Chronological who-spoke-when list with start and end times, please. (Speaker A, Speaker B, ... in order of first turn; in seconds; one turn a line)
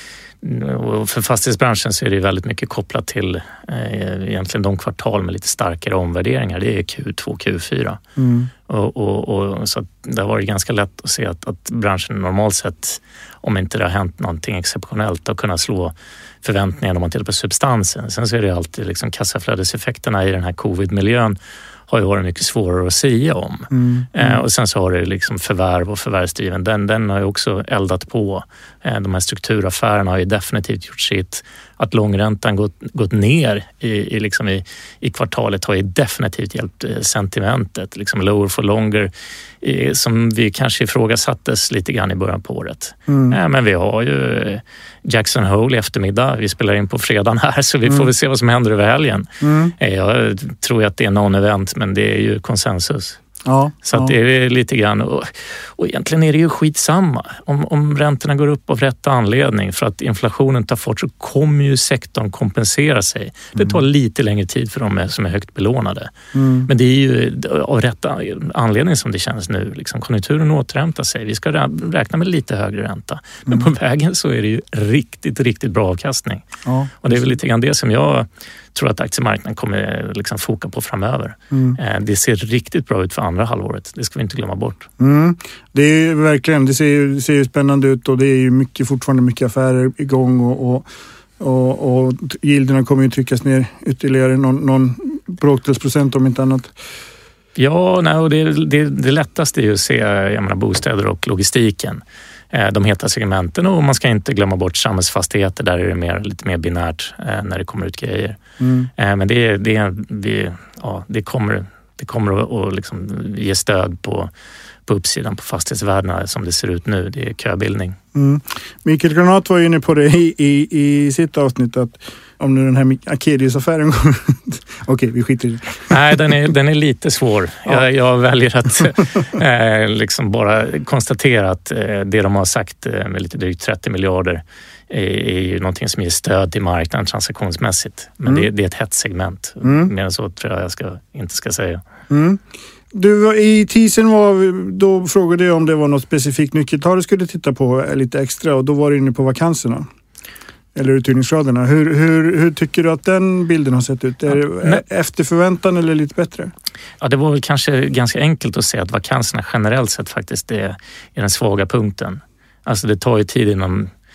Speaker A: 0.4-8.0
Speaker B: 8.2-8.5
Speaker A: 8.7-21.4
Speaker A: 21.9-53.2
Speaker B: 23.7-24.4
Speaker B: 43.1-43.4
Speaker B: 49.4-49.7
Speaker B: 53.4-54.1
Speaker A: 53.8-66.1
Speaker B: 66.3-66.7
Speaker A: 66.7-76.4
Speaker B: 76.6-77.3
Speaker A: 77.0-84.9
Speaker B: 81.5-81.8
Speaker B: 85.0-90.9
Speaker B: 91.4-96.7
Speaker A: 97.5-108.4
Speaker B: 108.6-108.9
Speaker A: 109.0-114.3
Speaker A: 114.8-118.0
Speaker B: 118.1-126.0
Speaker A: 125.9-141.8
Speaker B: 139.6-139.9
Speaker B: 142.1-142.4
Speaker B: 142.9-149.8
Speaker B: 150.7-156.5
Speaker A: 154.3-154.8
Speaker A: 157.0-163.9